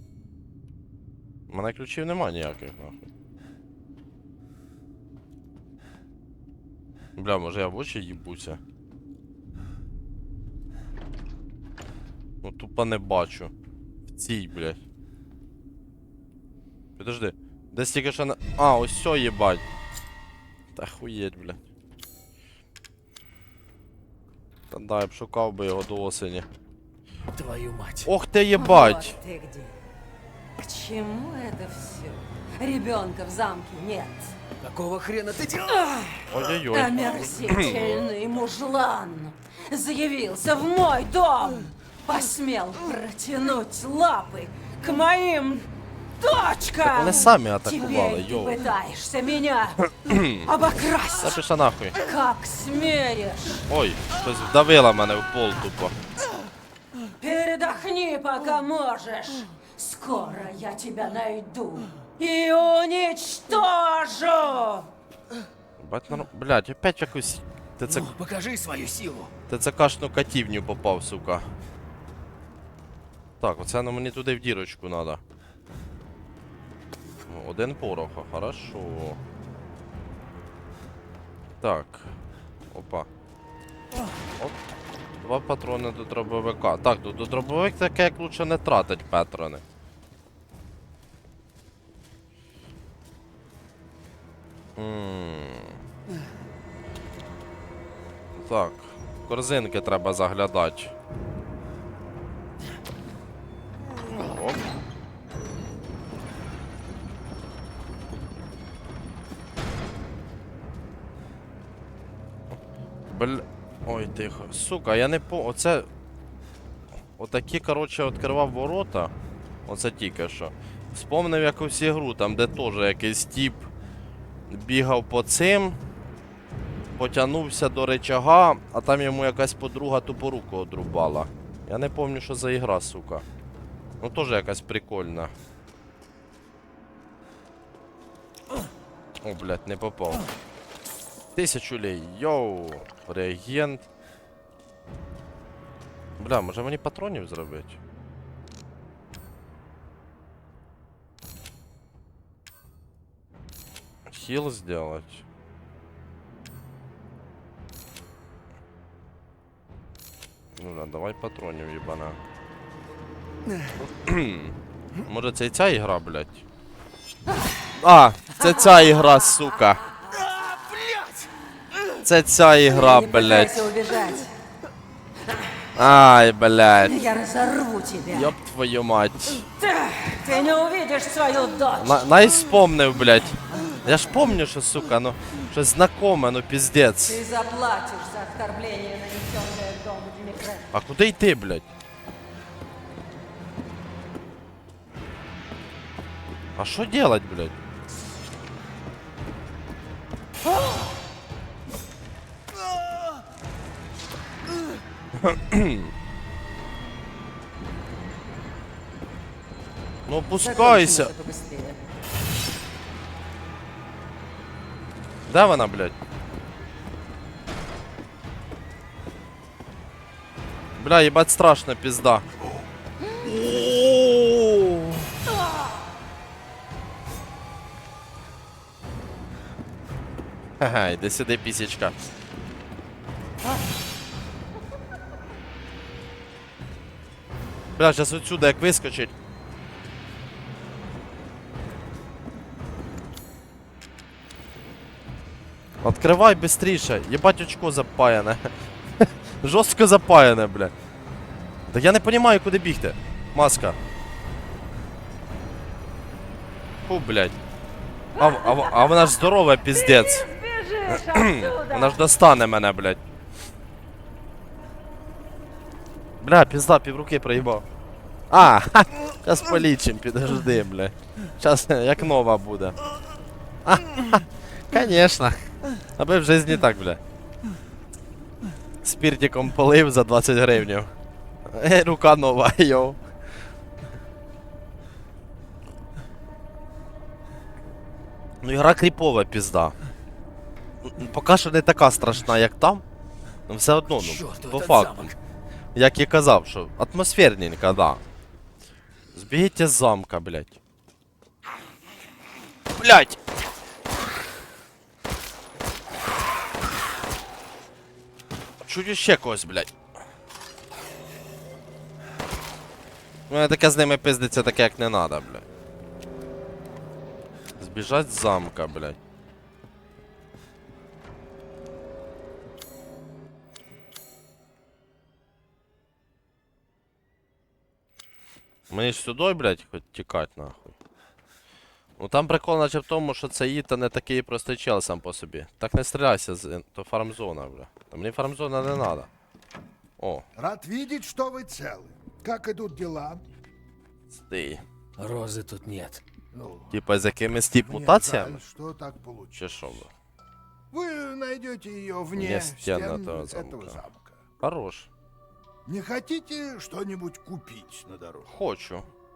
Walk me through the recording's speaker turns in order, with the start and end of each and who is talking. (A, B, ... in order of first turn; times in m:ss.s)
0:01.5-0:03.1 A
0:07.2-0:08.6 A
0:12.4-0:13.5 A
0:14.1-0:14.8 A
0:17.0-0:19.6 A
0:20.7-0:21.6 A
0:24.7-0:26.5 A
0:27.3-0:28.1 B
0:28.0-0:29.2 A
0:28.6-0:29.7 C
0:30.6-0:34.4 C
0:34.6-0:35.9 B
0:35.7-0:51.4 C
0:36.2-0:37.8 A
0:46.8-0:48.7 A
0:49.9-0:50.5 A
0:51.1-0:52.0 A
0:52.0-0:53.6 C
0:53.7-0:56.0 A
0:57.2-1:04.9 C
1:05.8-1:08.1 A
1:07.9-1:09.3 B
1:09.5-1:11.5 A
1:13.4-1:15.2 A
1:17.3-1:19.2 A
1:21.6-1:22.1 A
1:22.7-1:23.1 A
1:25.2-1:29.6 A
1:34.8-1:35.8 A
1:38.3-1:40.9 A
1:44.1-1:44.6 A
1:53.1-1:55.9 A
1:57.2-1:59.1 A
1:59.6-2:03.7 A
2:04.5-2:05.8 A
2:06.9-2:13.2 A
2:14.0-2:15.3 A
2:19.2-2:20.2 A
2:21.3-2:23.8 A
2:26.2-2:27.8 A
2:34.1-2:35.2 A
2:40.6-2:42.2 A
2:43.9-2:46.4 A
2:47.7-2:49.8 A
2:48.6-2:49.3 C
2:49.9-2:50.3 C
2:50.3-2:51.2 D
2:52.0-2:53.6 A
2:52.7-2:54.3 C
2:55.7-2:57.0 A
2:56.8-2:58.4 C
2:58.1-2:59.5 A
2:59.6-3:02.1 C
3:01.8-3:07.2 A
3:07.0-3:10.7 C
3:10.7-3:11.7 A
3:16.6-3:17.6 A
3:25.2-3:25.9 A
3:30.1-3:31.1 A
3:30.4-3:31.8 C
3:35.3-3:36.0 A
3:40.7-3:42.2 A
3:43.2-3:45.1 A
3:50.6-3:52.0 A
3:57.8-3:59.1 A
4:05.8-4:10.7 A
4:11.7-4:13.8 A
4:16.8-4:17.4 A
4:18.1-4:20.3 A
4:18.2-4:22.1 C
4:20.9-4:23.0 A
4:26.2-4:27.6 A
4:28.3-4:32.8 A
4:33.6-4:37.0 A
4:38.8-4:40.9 A
4:41.5-4:43.0 A
4:48.4-4:49.8 A
4:50.8-4:52.8 A
4:53.5-4:55.1 A
4:54.0-4:55.1 B
4:55.7-4:58.0 A
4:59.1-5:00.6 A
5:02.7-5:03.2 A
5:08.6-5:09.7 A
5:13.3-5:15.4 A
5:17.6-5:19.0 A
5:28.7-5:30.8 A
5:32.0-5:39.1 A
5:40.0-5:40.2 A
5:40.3-5:43.2 D
5:44.3-5:44.6 A
5:45.0-5:46.0 B
5:46.3-5:46.8 D
5:46.7-5:48.4 A
5:47.6-5:49.4 D
5:49.3-5:49.9 A
5:50.7-5:54.2 D
5:52.1-5:53.8 A
5:54.4-5:54.9 A
5:55.6-5:58.3 D
5:58.3-5:58.9 A